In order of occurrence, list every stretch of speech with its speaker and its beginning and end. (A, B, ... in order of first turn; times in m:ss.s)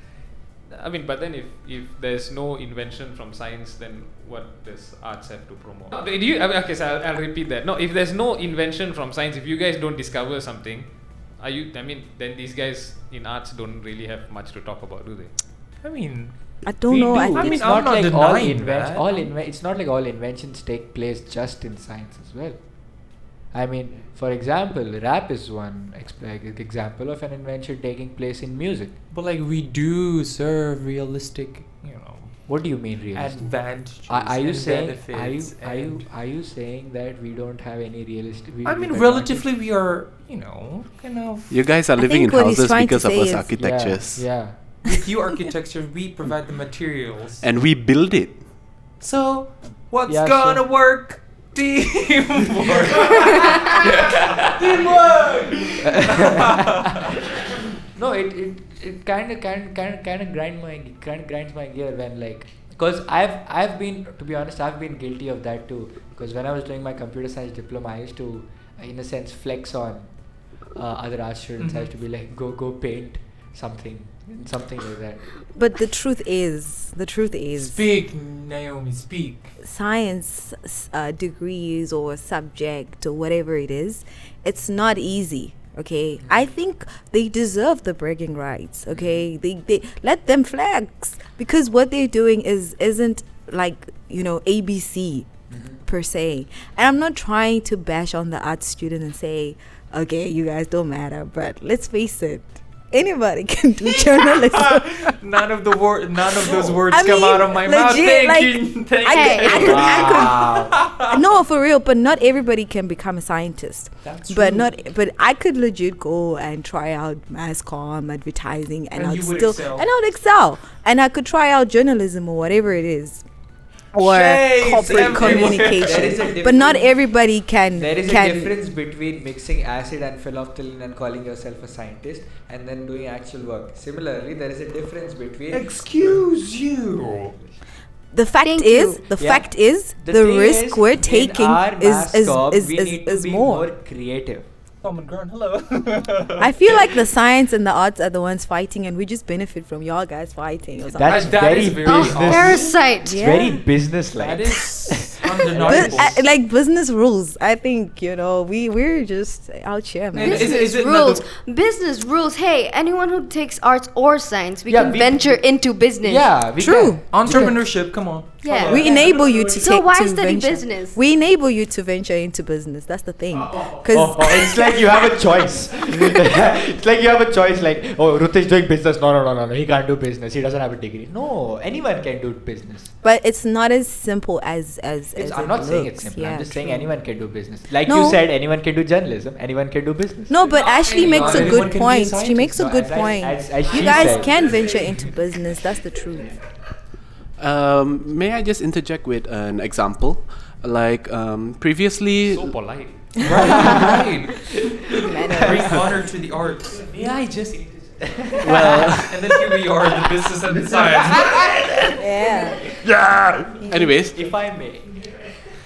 0:00.7-0:15.3 A
0:15.8-0:16.6 B
0:16.6-0:17.7 C
0:16.9-0:29.0 D
0:17.2-0:19.2 B
0:29.1-0:32.5 B
0:32.5-0:39.5 D
0:33.1-0:36.1 B
0:38.6-0:41.6 B
0:41.5-0:44.3 E
0:42.0-0:43.5 C
0:43.6-0:44.6 D
0:44.8-0:47.4 B
0:47.4-0:48.5 E
0:49.0-0:57.2 B
0:50.0-0:50.6 D
0:53.8-0:54.6 D
0:55.8-0:57.4 D
0:57.9-1:10.1 D
1:10.7-1:15.3 D
1:11.6-1:11.9 B
1:15.5-1:17.8 C
1:17.5-1:19.5 B
1:19.6-1:45.2 C
1:28.9-1:29.2 D
1:35.5-1:35.8 D
1:43.8-1:51.2 B
1:46.4-2:03.2 C
1:49.1-1:49.9 F
1:49.6-1:50.8 D
1:54.0-1:54.8 B
1:58.9-1:59.9 B
2:03.9-2:06.9 B
2:04.0-2:08.5 C
2:05.0-2:06.7 D
2:07.7-2:16.2 D
2:15.5-2:17.4 B
2:18.1-2:23.6 C
2:18.4-2:19.0 F
2:19.2-2:24.5 D
2:24.8-2:26.9 B
2:26.4-2:31.5 C
2:30.9-2:36.2 D
2:31.0-2:32.8 B
2:31.8-2:33.6 F
2:33.0-2:33.6 C
2:34.1-2:36.2 B
2:35.6-2:40.6 C
2:40.1-2:41.2 B
2:40.2-2:46.4 F
2:44.7-2:45.4 D
2:46.0-2:47.7 D
2:46.6-2:47.6 C
2:47.1-2:49.2 B
2:48.4-2:51.0 F
2:48.7-2:55.0 C
2:53.8-3:02.9 D
3:03.0-3:06.9 C
3:05.1-3:11.8 D
3:07.8-3:08.2 C
3:10.3-3:16.3 C
3:10.6-3:13.1 B
3:12.5-3:14.6 D
3:13.7-3:14.1 B
3:17.4-3:22.6 E
3:22.3-3:23.8 A
3:23.2-3:24.6 B
3:23.4-3:24.0 D
3:24.7-3:25.6 D
3:24.9-3:25.9 C
3:25.3-3:26.8 B
3:26.8-3:29.0 D
3:28.4-3:29.2 E
3:28.8-3:31.4 B
3:30.7-3:32.9 D
3:32.0-3:32.6 C
3:32.7-3:34.3 E
3:33.6-3:35.3 D